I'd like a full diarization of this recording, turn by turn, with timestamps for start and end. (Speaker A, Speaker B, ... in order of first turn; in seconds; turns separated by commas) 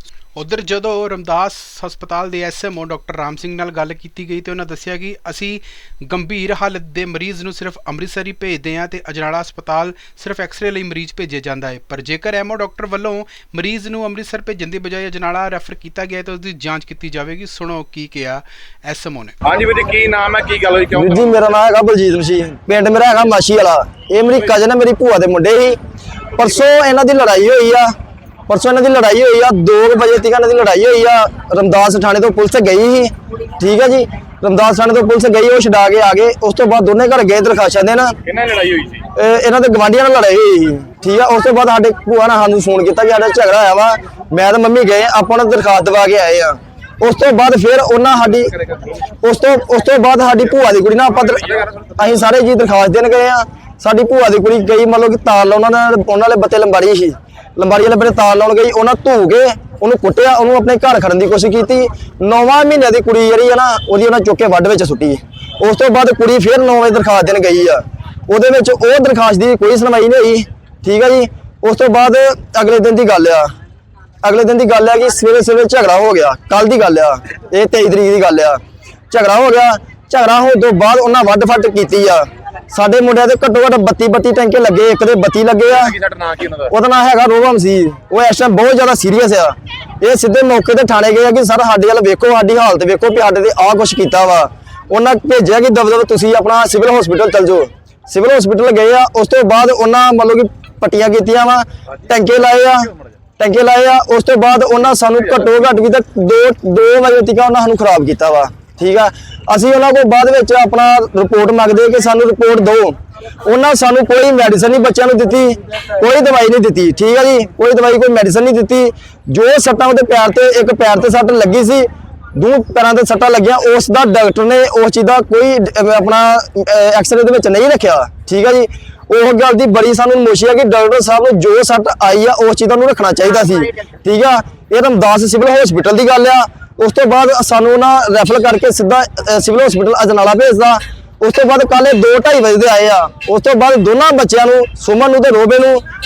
Speaker A: 0.3-19.3, Speaker B: 19.4-21.3, Speaker C: 20.9-25.8, Speaker C: 26.3-27.9, Speaker C: 28.5-38.1, Speaker B: 38.2-39.1, Speaker C: 39.1-48.5, Speaker C: 49.1-73.5, Speaker C: 74.2-86.0, Speaker B: 85.7-86.7, Speaker C: 86.7-145.8